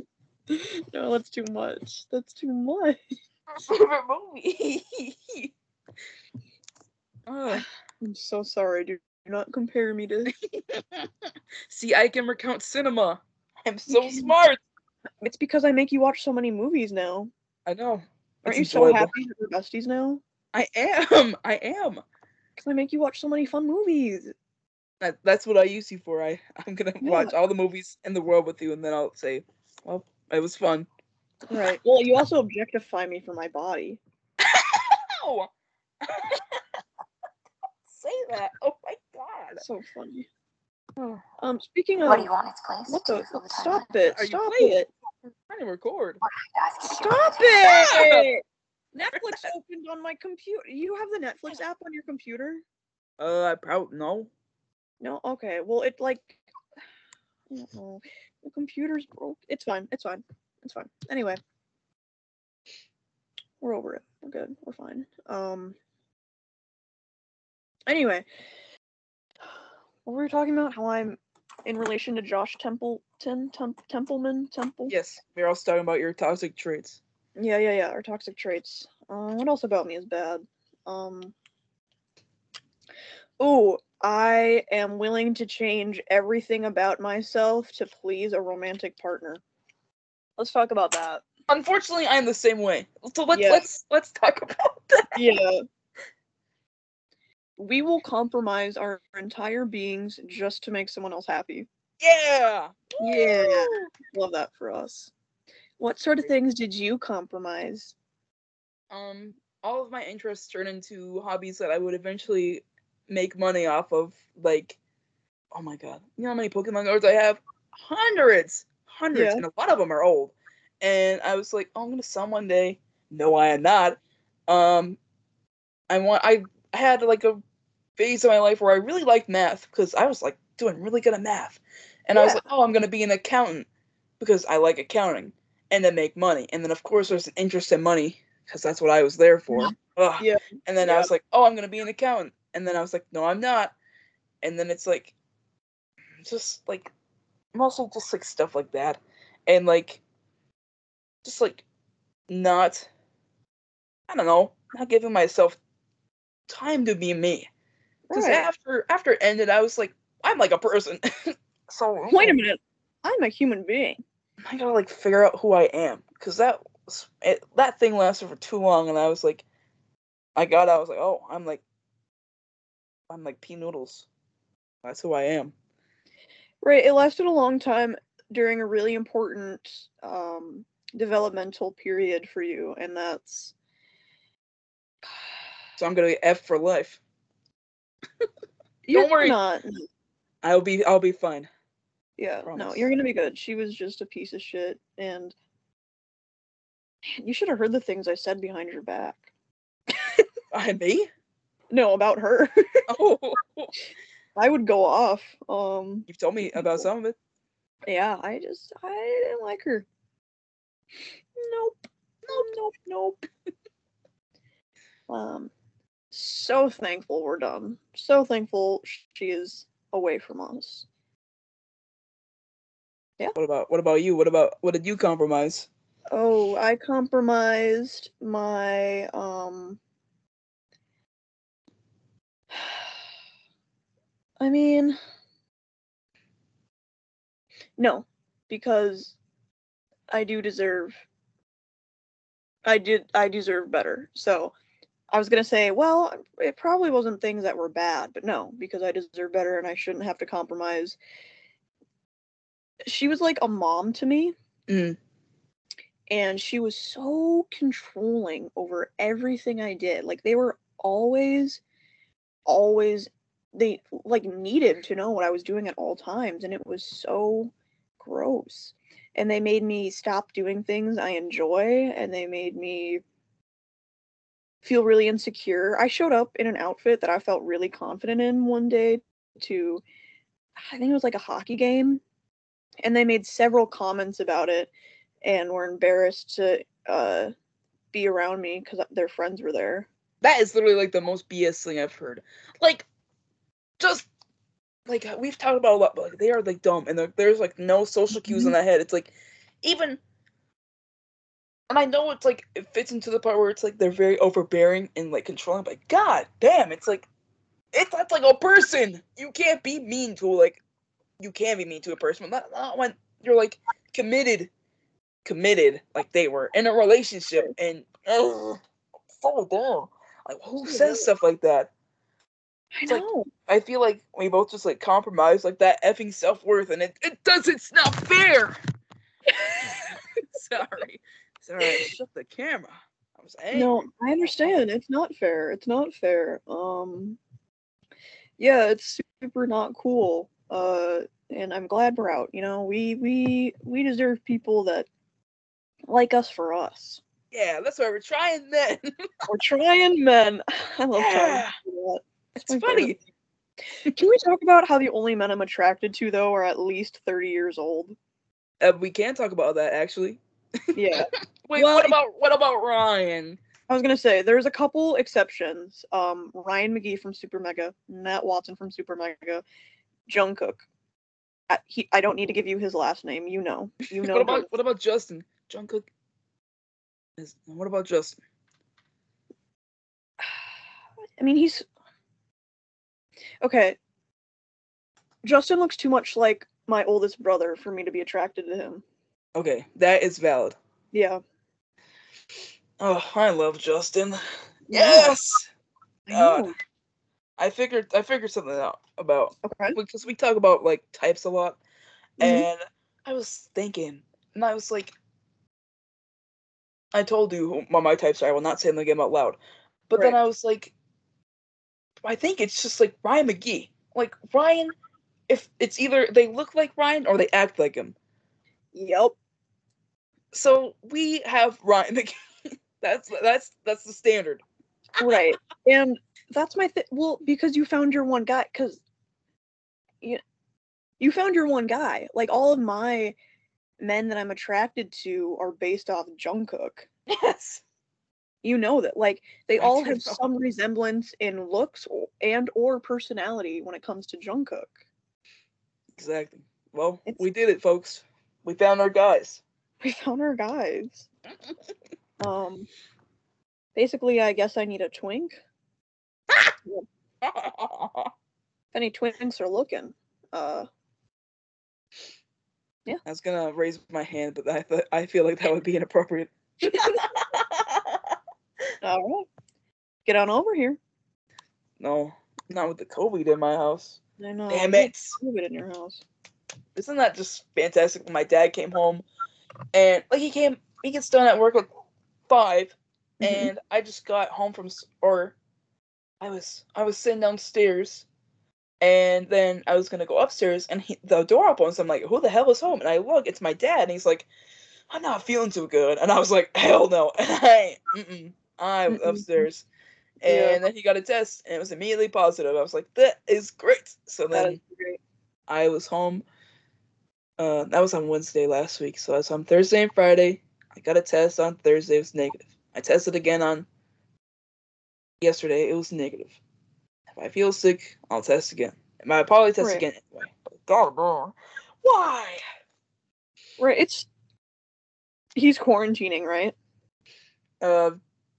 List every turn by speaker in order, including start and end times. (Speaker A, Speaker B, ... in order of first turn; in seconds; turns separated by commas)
Speaker A: 0.5-3.0, Speaker B: 3.5-5.5, Speaker B: 7.3-7.7, Speaker A: 7.5-10.3, Speaker B: 10.4-14.6, Speaker A: 13.9-14.3, Speaker A: 15.2-17.3, Speaker B: 17.6-19.1, Speaker A: 18.4-20.2, Speaker B: 20.5-22.0, Speaker A: 22.6-24.3, Speaker B: 25.0-30.9, Speaker A: 27.0-27.3, Speaker A: 31.5-34.0, Speaker B: 34.4-35.5, Speaker B: 36.0-36.6, Speaker B: 37.9-39.6, Speaker A: 39.6-40.3, Speaker A: 41.4-42.3, Speaker C: 42.0-43.9, Speaker A: 42.9-44.9, Speaker B: 44.0-44.8, Speaker B: 45.4-46.2, Speaker C: 46.2-47.9, Speaker A: 46.9-48.4, Speaker B: 47.6-48.3, Speaker A: 48.9-52.6, Speaker B: 49.1-49.5, Speaker B: 53.2-54.3, Speaker A: 55.0-56.4, Speaker A: 57.5-61.4, Speaker A: 63.6-65.8, Speaker A: 67.9-68.2, Speaker A: 70.0-74.9, Speaker B: 74.9-77.0, Speaker A: 77.4-81.3, Speaker A: 83.4-89.4, Speaker A: 90.4-91.2, Speaker B: 91.5-95.2, Speaker A: 93.3-93.7, Speaker A: 95.1-95.6, Speaker A: 97.6-101.7, Speaker B: 102.0-103.9, Speaker A: 103.0-105.1, Speaker A: 105.8-107.9, Speaker B: 108.9-114.8, Speaker B: 115.5-125.0, Speaker A: 119.1-119.4, Speaker B: 125.9-127.4, Speaker B: 128.0-133.7, Speaker A: 132.1-132.4, Speaker B: 134.2-143.7, Speaker A: 139.5-141.1, Speaker B: 144.4-145.1, Speaker B: 146.2-146.9, Speaker B: 147.5-150.0, Speaker B: 151.2-151.6, Speaker B: 152.3-152.9, Speaker B: 154.1-155.6, Speaker B: 156.5-157.5, Speaker A: 158.1-158.5, Speaker B: 158.1-162.4, Speaker A: 162.1-164.0, Speaker B: 164.4-169.4, Speaker B: 170.3-171.6, Speaker B: 173.1-174.1, Speaker B: 174.8-175.5, Speaker A: 176.6-183.5, Speaker B: 185.8-187.0, Speaker A: 188.9-189.9, Speaker B: 188.9-189.4, Speaker B: 190.4-191.5, Speaker A: 192.2-195.3, Speaker B: 192.4-192.9, Speaker A: 197.2-199.2, Speaker B: 200.5-201.1, Speaker A: 201.7-202.5, Speaker B: 202.9-203.7, Speaker A: 204.3-206.9, Speaker B: 206.1-207.2, Speaker A: 207.9-209.8, Speaker A: 211.3-213.2, Speaker A: 215.1-215.5, Speaker A: 216.1-220.8, Speaker B: 223.3-225.7, Speaker A: 226.1-229.8, Speaker A: 232.5-232.8, Speaker A: 234.4-235.0, Speaker A: 237.8-239.2, Speaker A: 240.1-241.0, Speaker A: 242.7-244.5, Speaker A: 245.1-251.0, Speaker A: 252.8-254.3, Speaker B: 254.7-255.0, Speaker A: 256.1-261.6, Speaker A: 262.4-273.0, Speaker A: 274.6-279.8, Speaker A: 280.6-282.0, Speaker A: 282.8-284.7, Speaker A: 285.2-287.3, Speaker A: 287.9-289.9, Speaker B: 290.2-292.9, Speaker B: 293.8-294.1, Speaker B: 294.9-300.0, Speaker A: 298.1-298.5, Speaker B: 301.7-307.1, Speaker B: 307.7-310.6, Speaker B: 311.2-314.5, Speaker B: 315.2-318.6, Speaker B: 319.2-321.7, Speaker A: 320.6-321.1, Speaker A: 322.7-323.3, Speaker B: 322.9-328.6, Speaker A: 329.3-329.9, Speaker B: 329.5-333.9, Speaker A: 331.6-331.9, Speaker A: 333.5-337.2, Speaker A: 338.4-344.9, Speaker A: 345.9-347.0, Speaker B: 347.3-348.9, Speaker A: 349.3-353.0, Speaker B: 350.9-351.6, Speaker B: 352.3-353.0, Speaker A: 353.9-357.9, Speaker B: 358.6-360.2, Speaker A: 360.7-361.9, Speaker B: 361.4-363.4, Speaker A: 363.7-369.4, Speaker A: 370.1-370.6, Speaker A: 371.5-374.5, Speaker B: 373.9-375.9, Speaker B: 377.2-378.2, Speaker A: 381.2-381.7, Speaker A: 383.4-383.8, Speaker A: 385.2-388.8, Speaker B: 389.3-390.6, Speaker A: 390.9-391.2, Speaker B: 392.8-395.5, Speaker A: 394.7-395.1, Speaker A: 396.1-396.5, Speaker B: 396.1-396.5, Speaker B: 397.4-401.6, Speaker A: 399.4-399.8, Speaker B: 402.2-404.9, Speaker A: 402.2-402.4, Speaker B: 406.9-409.4, Speaker B: 409.9-410.7, Speaker B: 412.0-414.7, Speaker B: 415.3-417.9, Speaker A: 418.7-419.1, Speaker B: 420.3-422.1, Speaker B: 422.8-424.4, Speaker A: 425.0-428.8, Speaker A: 431.0-433.1, Speaker A: 433.8-436.9, Speaker B: 437.1-437.6, Speaker A: 438.4-444.7, Speaker B: 439.6-440.2, Speaker B: 445.9-449.4, Speaker A: 449.8-451.1, Speaker A: 452.2-452.7, Speaker A: 453.8-455.4, Speaker B: 457.2-458.1, Speaker A: 458.7-460.7, Speaker B: 463.0-468.1, Speaker A: 468.8-469.3, Speaker A: 470.1-470.8, Speaker B: 471.8-474.0, Speaker A: 474.2-476.0, Speaker B: 474.5-475.2, Speaker B: 476.7-479.0, Speaker B: 479.7-481.7, Speaker B: 482.3-485.4, Speaker A: 483.2-483.5, Speaker B: 486.2-488.1, Speaker B: 488.8-494.3, Speaker B: 494.9-499.6, Speaker A: 498.9-499.5, Speaker B: 500.2-504.6, Speaker A: 500.2-500.6, Speaker A: 504.3-505.0, Speaker B: 505.5-506.2, Speaker B: 507.4-513.6, Speaker B: 515.2-516.4, Speaker B: 517.1-522.4, Speaker A: 519.6-519.8, Speaker A: 523.6-524.1, Speaker A: 525.4-526.5, Speaker B: 527.6-528.0